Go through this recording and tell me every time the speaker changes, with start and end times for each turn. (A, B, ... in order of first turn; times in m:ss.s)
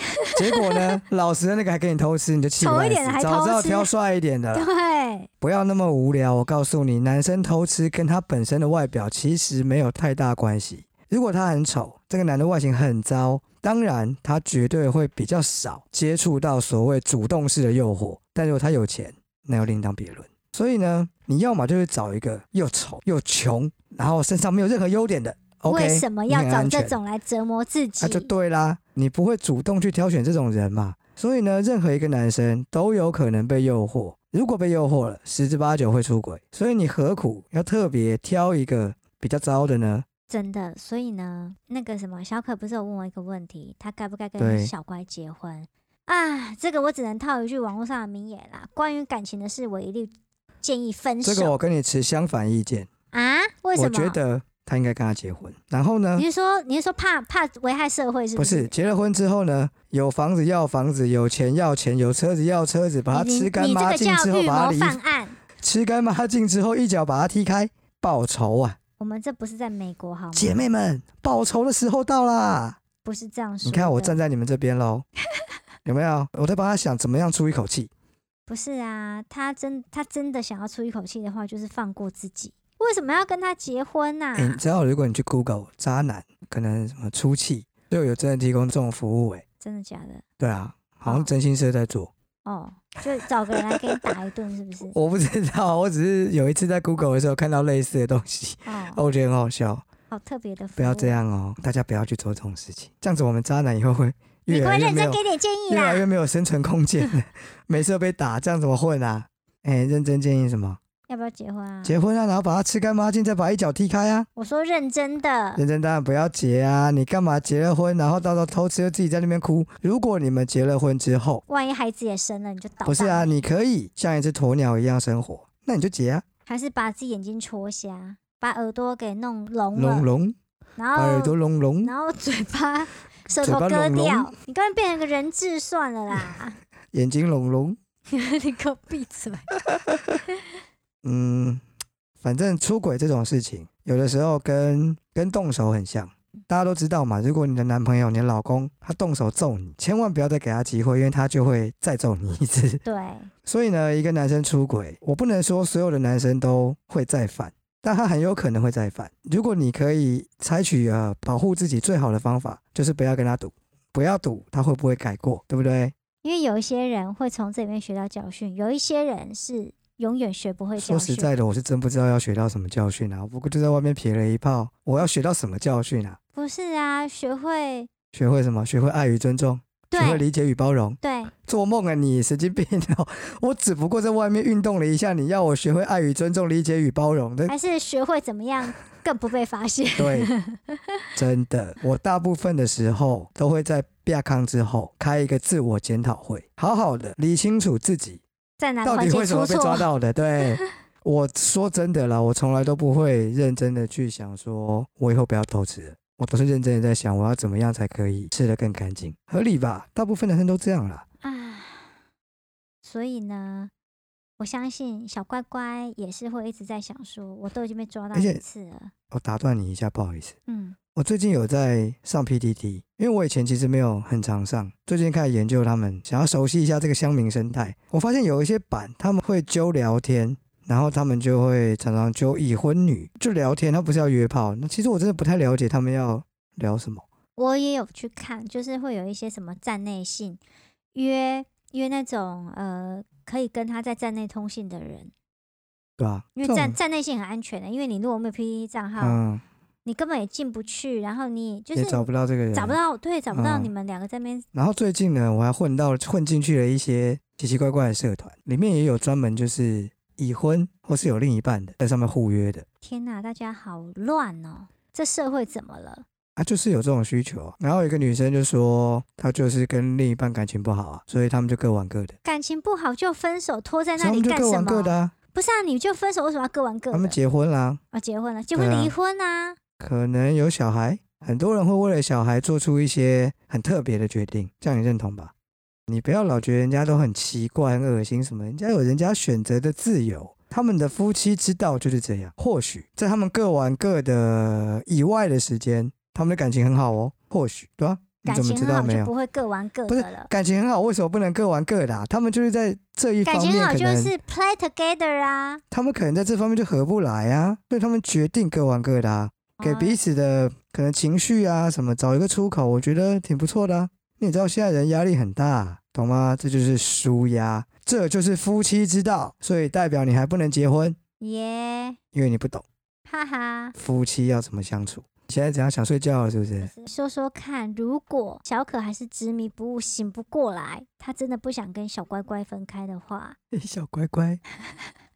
0:00.1-0:01.0 A
0:00.3-0:04.7 B
0:02.6-0:03.9 A
0:04.5-0:05.3 A
0:05.4-0:27.0 B
0:25.7-0:28.3 A
0:28.0-0:40.0 B
0:40.3-0:50.1 A
0:44.4-0:44.7 B
0:50.6-0:51.5 A
0:51.2-0:52.9 B
0:53.1-0:54.2 A
0:53.7-0:56.2 B
0:56.2-0:58.7 A
0:58.4-1:05.0 B
1:03.1-1:05.4 A
1:05.6-1:08.8 B
1:09.0-1:10.6 A
1:10.3-1:12.8 B
1:13.0-1:14.2 A
1:13.6-1:15.0 B
1:15.8-1:17.9 B
1:18.5-1:24.6 A
1:24.3-1:29.4 B
1:29.6-1:30.2 A
1:30.4-1:32.1 B
1:31.0-1:31.3 A
1:32.4-1:34.9 A
1:33.5-1:34.1 B
1:34.9-1:39.8 B
1:38.6-1:39.0 A
1:40.1-1:41.2 A
1:40.8-1:50.8 B
1:44.5-1:46.0 A
1:51.1-1:52.0 A
1:51.8-1:54.3 B
1:54.4-1:55.6 A
1:55.6-2:01.4 B
2:01.5-2:03.3 A
2:02.8-2:06.2 B
2:06.4-2:10.1 A
2:09.7-2:10.4 B
2:10.8-2:16.6 A
2:10.9-2:11.9 B
2:13.4-2:14.3 B
2:16.9-2:17.8 B
2:18.1-2:19.5 A
2:19.6-2:20.2 B
2:21.0-2:21.6 B
2:22.2-2:32.8 B
2:32.8-2:33.3 A
2:33.4-2:45.9 B
2:46.2-2:51.3 A
2:50.8-2:56.2 B
2:56.3-2:57.9 A
2:58.1-3:07.5 B
2:59.9-3:00.2 A
3:01.0-3:01.3 A
3:07.5-3:10.8 A
3:10.0-3:10.3 B
3:11.2-3:18.2 B
3:18.6-3:19.9 A
3:18.8-3:31.0 B
3:31.2-3:31.9 A
3:32.8-3:33.7 A
3:34.4-3:38.9 A
3:38.1-3:38.4 B
3:39.1-3:40.3 B
3:40.5-3:40.8 A
3:40.9-3:57.0 B
3:57.4-4:00.4 A
4:00.9-4:05.1 A
4:06.0-4:06.8 B
4:06.4-4:09.2 A
4:09.0-4:09.4 B
4:09.8-4:14.4 A
4:11.7-4:12.8 B
4:13.3-4:13.7 B
4:14.5-4:22.6 B
4:22.8-4:26.0 A
4:26.4-4:32.2 B
4:32.2-4:37.2 A
4:34.0-4:35.1 B
4:36.9-4:37.8 B
4:37.9-4:39.6 A
4:38.5-4:38.9 B
4:39.8-4:45.3 B
4:45.9-4:59.1 B
4:58.2-5:00.3 A
4:59.9-5:04.1 B
5:03.2-5:05.6 A
5:05.7-5:21.0 B
5:09.6-5:10.0 A
5:21.2-5:22.0 A
5:22.1-5:22.6 B
5:23.1-5:23.8 A
5:23.8-5:26.7 B
5:26.6-5:33.4 A
5:33.5-5:34.4 B